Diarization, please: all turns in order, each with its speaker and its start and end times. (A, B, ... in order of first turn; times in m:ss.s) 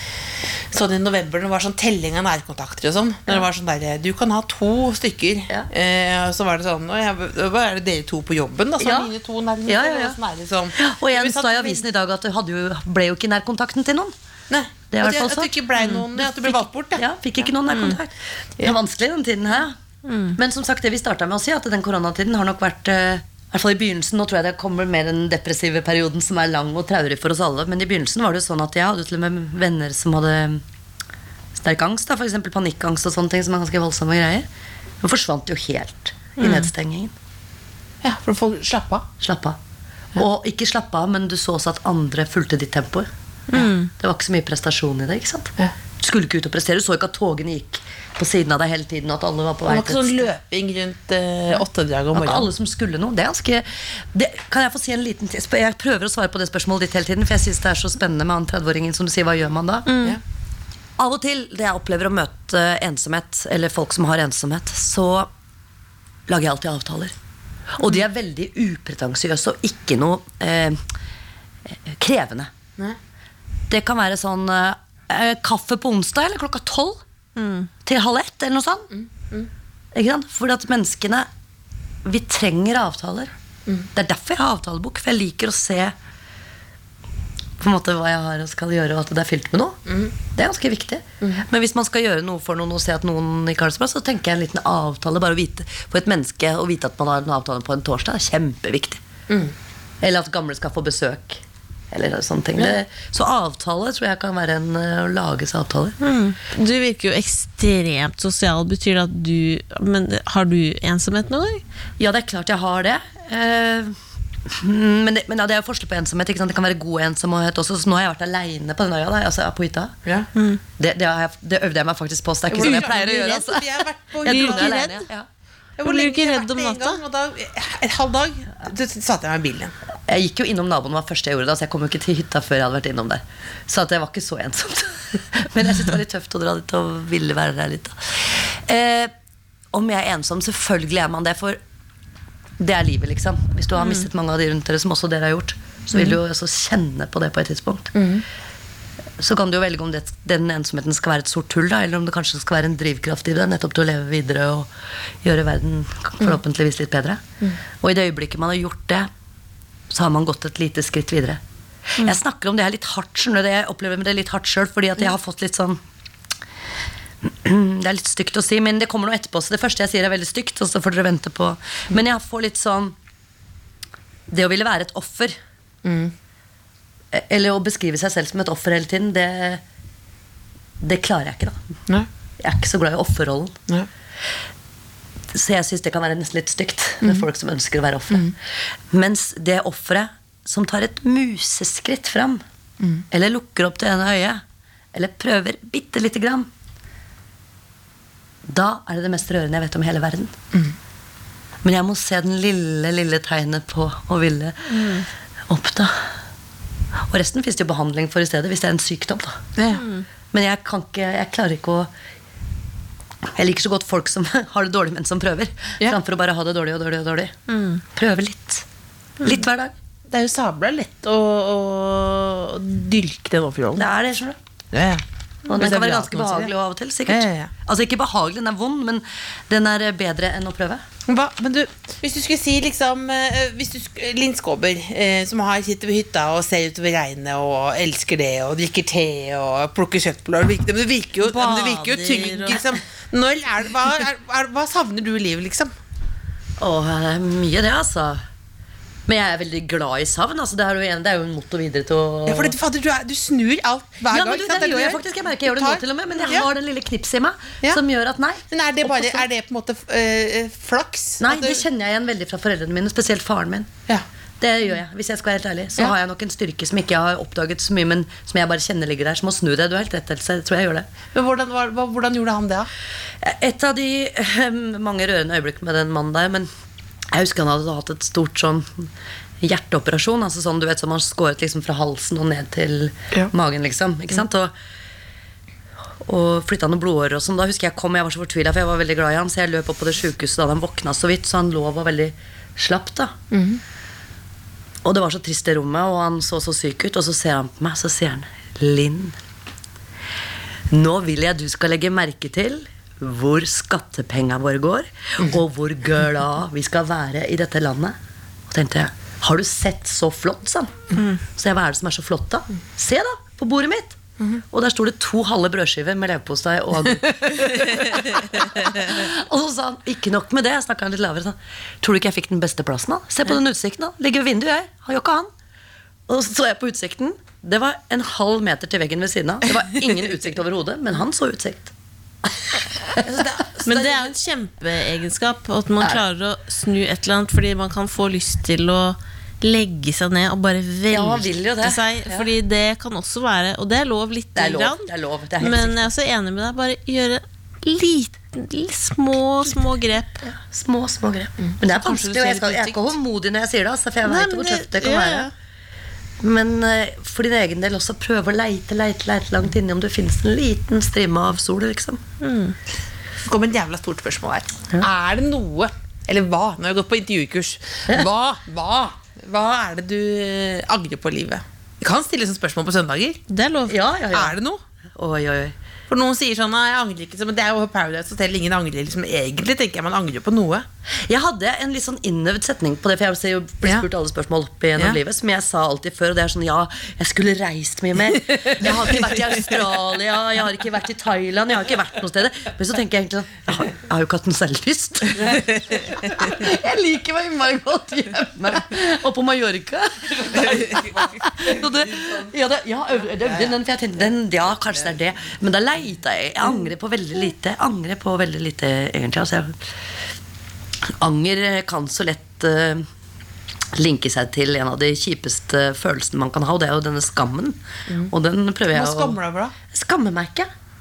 0:00.6-0:11.8 A
0:08.8-0:09.1 B
0:09.7-0:10.2 B
0:10.8-0:14.1 B
0:14.5-0:17.0 A
0:14.9-0:15.5 B
0:15.8-0:16.0 C
0:16.2-0:19.8 B
0:17.7-0:18.0 C
0:20.0-0:20.4 C
0:20.4-0:30.6 B
0:31.5-0:34.5 B
0:35.0-0:37.1 B
0:36.4-0:36.7 C
0:38.0-0:39.1 A
0:39.2-0:39.6 B
0:40.1-0:43.1 B
0:43.5-0:43.9 C
0:43.9-0:50.3 B
0:49.7-0:52.5 A
0:52.1-0:59.9 B
0:59.8-1:00.2 C
1:01.0-1:05.3 B
1:06.3-1:07.1 B
1:07.8-1:10.8 B
1:11.7-1:12.5 B
1:13.7-1:17.0 B
1:17.4-1:17.7 C
1:17.8-1:18.9 B
1:18.9-1:19.5 A
1:19.9-1:21.3 B
1:22.0-1:23.3 B
1:23.9-1:26.0 B
1:27.6-1:39.0 B
1:29.9-1:30.1 A
1:39.3-1:39.5 A
1:40.0-1:46.0 B
1:46.0-1:51.6 C
1:52.0-2:00.0 B
2:00.4-2:00.6 C
2:00.8-2:05.3 B
2:02.5-2:05.0 A
2:05.8-2:09.7 A
2:05.8-2:07.0 C
2:10.1-2:19.1 B
2:19.7-2:21.6 B
2:22.6-2:27.9 B
2:27.9-2:28.2 A
2:29.2-2:34.7 B
2:35.2-2:37.2 B
2:37.8-2:39.1 B
2:39.9-2:41.4 B
2:42.0-2:45.8 B
2:47.2-2:53.0 B
2:54.3-2:55.4 B
2:55.8-2:56.1 A
2:57.1-2:59.6 B
3:00.8-3:01.6 B
3:02.4-3:03.6 B
3:05.3-3:08.3 B
3:08.9-3:12.4 B
3:13.1-3:14.4 B
3:14.9-3:16.5 B
3:18.5-3:20.4 B
3:21.6-3:26.1 B
3:24.7-3:25.0 C
3:27.1-3:29.4 B
3:29.6-3:29.8 A
3:29.7-3:30.0 C
3:30.3-3:31.9 B
3:33.3-3:37.3 B
3:37.5-3:37.8 C
3:37.9-3:38.6 B
3:39.2-3:39.7 B
3:40.1-3:43.8 A
3:43.8-3:44.4 B
3:44.7-3:46.5 A
3:45.5-3:50.8 B
3:47.1-3:47.5 A
3:51.1-4:05.7 A
4:01.2-4:02.6 C
4:06.6-4:08.2 B
4:09.1-4:12.6 B
4:12.3-4:16.5 A
4:14.1-4:19.2 B
4:18.5-4:21.6 A
4:21.2-4:23.7 B
4:24.4-4:30.9 B
4:31.1-4:32.7 A
4:33.2-4:36.5 B
4:37.1-4:38.9 B
4:39.4-4:44.5 B
4:46.0-4:53.2 B
4:53.3-4:53.6 A
4:54.8-4:59.2 B
5:00.7-5:08.0 B
5:08.5-5:14.0 B
5:14.5-5:25.3 B
5:17.1-5:17.8 A
5:26.1-5:31.7 B
5:32.2-5:34.1 B
5:33.0-5:33.8 A
5:33.7-5:44.9 C
5:40.9-5:42.3 B
5:44.4-5:45.9 B
5:45.4-5:50.2 C
5:50.3-5:55.3 B
5:51.4-5:52.9 A
5:54.0-5:55.3 C
5:56.2-6:02.0 B
6:02.2-6:02.5 C
6:03.3-6:13.2 A
6:13.3-6:13.8 C
6:13.7-6:14.4 B
6:14.1-6:14.6 A
6:14.9-6:15.6 B
6:15.9-6:20.6 A
6:21.0-6:49.6 B
6:28.2-6:29.4 A
6:35.2-6:36.4 A
6:40.3-6:42.2 A
6:50.8-6:52.9 B
6:53.7-6:59.2 B
6:58.7-6:59.5 A
6:59.7-7:00.5 B